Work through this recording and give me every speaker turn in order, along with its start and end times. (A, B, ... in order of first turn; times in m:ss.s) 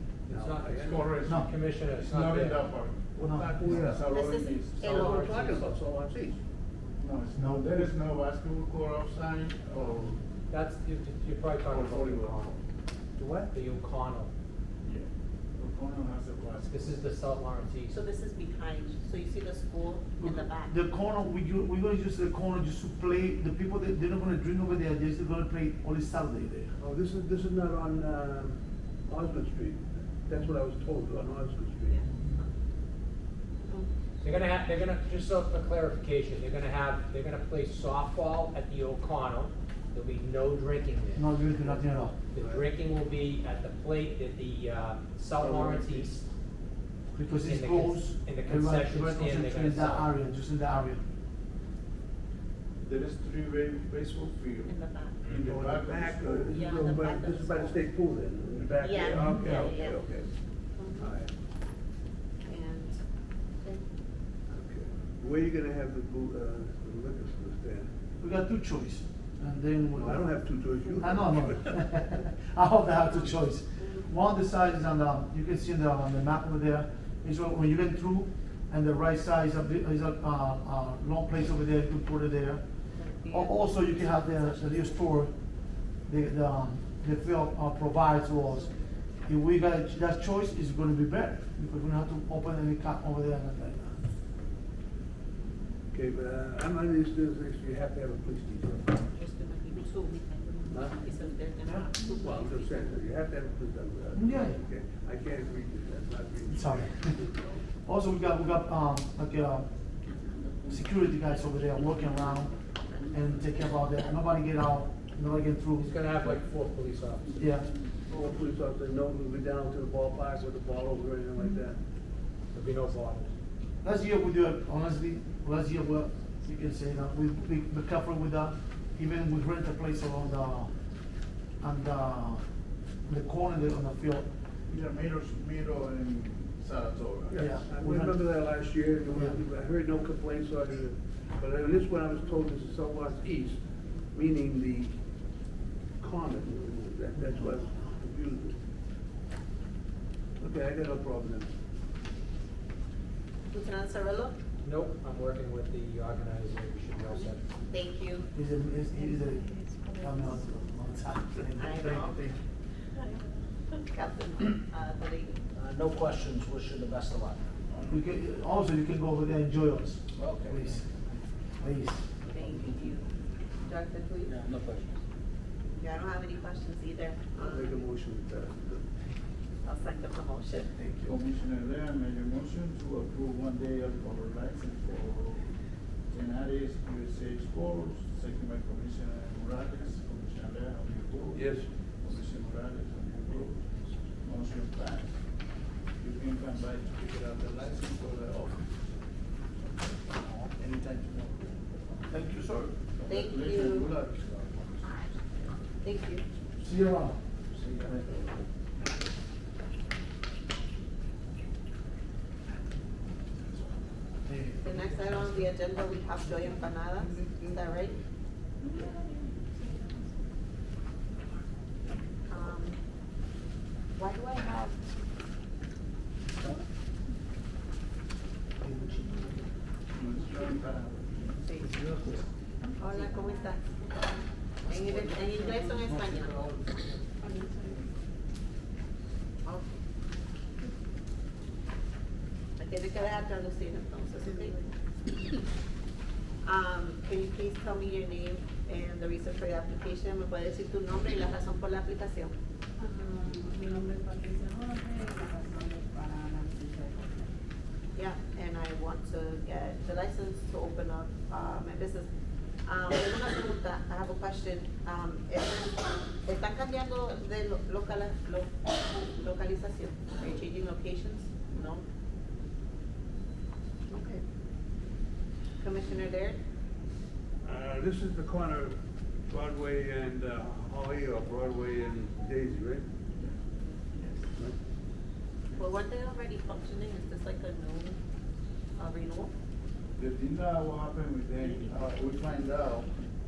0:00.3-0:02.7 A
0:00.3-0:01.1 B
0:00.8-0:05.2 C
0:03.2-0:04.0 D
0:03.3-0:04.1 B
0:04.1-0:05.2 E
0:04.8-0:06.4 B
0:05.0-0:05.7 A
0:07.0-0:10.2 C
0:07.4-0:07.8 D
0:09.8-0:10.1 B
0:10.5-0:12.6 A
0:11.7-0:12.5 C
0:13.2-0:13.5 B
0:13.5-0:14.3 A
0:14.8-0:17.0 C
0:16.6-0:18.0 A
0:17.9-0:20.7 E
0:20.2-0:26.8 D
0:26.8-0:32.0 B
0:31.9-0:32.5 E
0:34.2-0:41.3 A
0:41.2-0:42.2 D
0:42.3-0:46.3 A
0:42.4-0:42.6 B
0:45.4-0:45.9 B
0:47.2-0:51.0 D
0:47.2-0:50.1 A
0:52.8-0:56.6 C
0:54.7-0:55.2 E
0:55.3-1:00.4 B
0:56.5-0:57.8 E
0:58.8-1:00.0 E
0:59.3-0:59.7 D
1:00.8-1:01.2 E
1:01.0-1:01.3 B
1:02.5-1:03.0 E
1:04.5-1:07.9 B
1:08.2-1:22.7 D
1:10.0-1:11.9 B
1:22.9-1:24.9 E
1:23.2-1:25.3 D
1:25.9-1:34.1 D
1:35.9-1:39.1 B
1:39.1-1:42.9 E
1:40.7-1:41.0 B
1:41.6-1:47.6 B
1:44.2-1:44.6 D
1:46.5-1:47.2 D
1:47.8-1:50.0 D
1:50.7-1:56.4 D
1:55.8-1:57.3 A
1:57.4-1:57.7 D
1:58.1-2:01.8 B
2:02.5-2:03.3 A
2:03.8-2:10.8 D
2:11.6-2:12.4 D
2:13.0-2:14.3 D
2:14.7-2:17.5 C
2:17.3-2:23.6 B
2:17.4-2:18.2 D
2:24.1-2:25.0 B
2:26.0-2:28.6 B
2:30.4-2:31.5 B
2:33.5-2:34.4 E
2:34.6-2:37.4 A
2:37.7-2:38.3 E
2:38.3-2:42.3 D
2:41.6-2:42.3 E
2:43.7-2:45.4 E
2:45.6-2:47.4 F
2:47.9-2:52.1 D
2:50.2-2:50.6 F
2:52.3-2:53.1 E
2:53.6-2:54.4 E
2:55.8-2:57.8 E
2:57.4-2:58.9 B
2:59.6-3:00.8 E
3:01.0-3:05.5 C
3:06.1-3:13.7 C
3:11.3-3:11.7 B
3:14.2-3:15.1 C
3:16.0-3:18.7 C
3:20.4-3:21.5 C
3:22.1-3:22.8 D
3:23.0-3:25.1 C
3:23.1-3:23.9 E
3:25.8-3:26.2 E
3:26.6-3:27.2 D
3:34.6-3:38.0 E
3:38.8-3:39.9 G
3:42.3-3:42.8 E
3:44.0-3:44.8 E
3:48.6-3:49.2 G
3:49.9-3:52.0 C
3:51.4-3:51.8 E
3:52.6-3:53.9 G
3:52.8-3:54.1 E
3:54.7-3:56.4 E
3:55.2-3:55.5 G
3:56.4-3:56.8 C
3:57.2-3:57.8 G
3:59.4-3:59.8 E
4:02.6-4:04.6 E
4:06.4-4:12.3 E
4:12.8-4:17.3 G
4:18.0-4:22.1 E
4:22.6-4:31.8 E
4:33.9-4:34.2 E
4:35.6-4:36.4 E
4:37.4-4:38.8 B
4:39.3-4:42.9 B
4:45.6-4:48.0 E
4:48.8-4:49.3 E
4:50.0-4:52.9 C